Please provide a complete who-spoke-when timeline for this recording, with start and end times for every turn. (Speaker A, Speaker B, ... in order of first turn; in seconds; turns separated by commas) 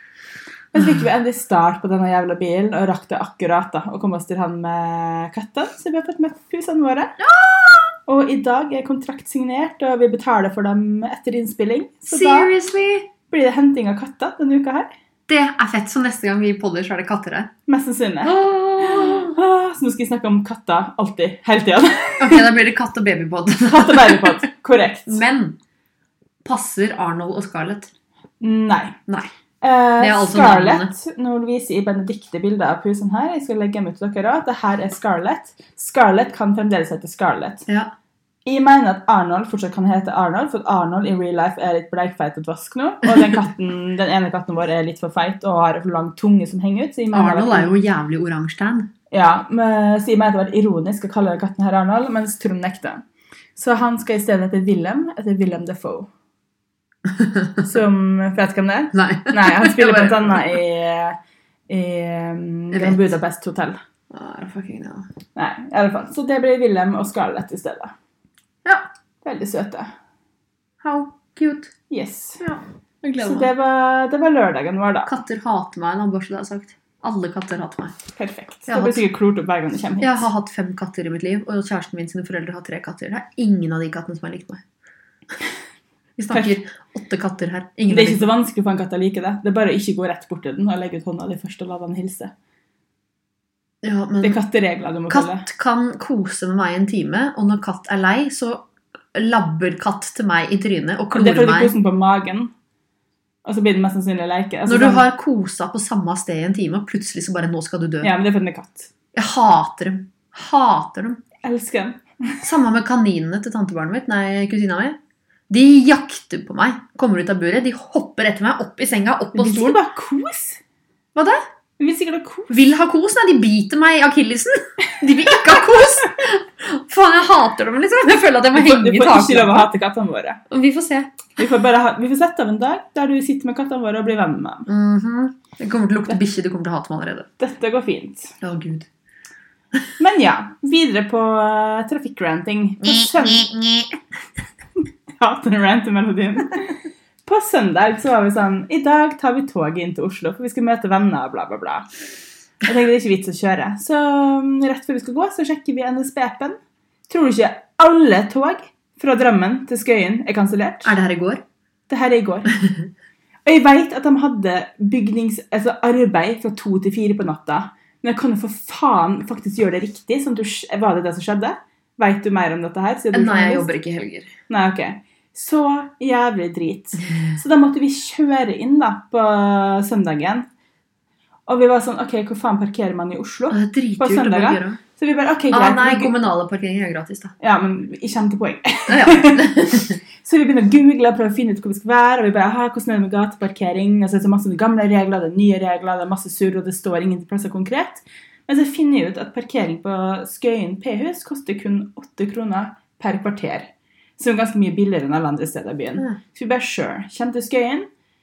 Speaker A: 0.7-7.2, Speaker B: 7.2-7.9, Speaker A: 8.1-12.5, Speaker B: 12.1-13.1, Speaker A: 13.3-14.9, Speaker B: 15.3-17.5, Speaker A: 17.7-22.5, Speaker B: 18.2-19.4, Speaker B: 22.2-24.4, Speaker A: 23.6-25.2, Speaker B: 25.1-25.6, Speaker B: 26.4-27.9, Speaker A: 28.4-29.0, Speaker A: 29.6-37.7, Speaker B: 30.0-30.9, Speaker A: 38.5-47.7, Speaker B: 43.1-43.4, Speaker B: 47.1-48.9, Speaker A: 49.1-53.0, Speaker A: 53.6-56.1, Speaker B: 57.1-57.6, Speaker A: 57.6-61.2, Speaker B: 58.9-60.4, Speaker A: 61.7-63.8, Speaker B: 62.7-63.1, Speaker B: 64.1-65.1, Speaker A: 65.4-68.0, Speaker A: 69.2-69.9, Speaker B: 70.8-71.7, Speaker A: 71.9-72.4, Speaker B: 72.4-73.5, Speaker A: 73.2-75.1, Speaker B: 75.1-78.0, Speaker A: 78.2-80.2, Speaker B: 78.7-79.0, Speaker B: 80.0-84.6, Speaker B: 86.2-88.3, Speaker A: 86.3-86.6, Speaker A: 87.9-92.3, Speaker B: 93.8-94.4, Speaker A: 94.2-95.5, Speaker B: 95.1-101.7, Speaker A: 101.1-102.5, Speaker A: 103.5-105.0, Speaker B: 104.7-108.1, Speaker A: 108.0-108.9, Speaker B: 109.1-111.2, Speaker A: 111.4-112.5, Speaker B: 112.4-115.0, Speaker B: 115.5-119.8, Speaker A: 119.3-120.6, Speaker B: 121.2-121.4, Speaker A: 121.8-122.5, Speaker B: 122.5-129.7, Speaker A: 125.2-126.1, Speaker A: 128.5-130.4, Speaker B: 130.5-131.3, Speaker A: 131.4-134.7, Speaker B: 134.7-137.3, Speaker A: 137.4-138.4, Speaker B: 138.4-138.9, Speaker A: 140.0-143.5, Speaker B: 142.8-144.0, Speaker A: 144.8-151.9, Speaker A: 152.6-156.6, Speaker A: 157.1-160.9, Speaker B: 160.8-161.4, Speaker A: 161.9-162.5, Speaker B: 162.6-162.8, Speaker A: 163.5-173.7, Speaker B: 173.1-174.3, Speaker A: 174.5-180.5, Speaker A: 181.5-186.1, Speaker B: 183.5-184.8, Speaker B: 185.5-187.3, Speaker A: 187.4-189.6, Speaker B: 188.9-190.0, Speaker A: 190.2-207.9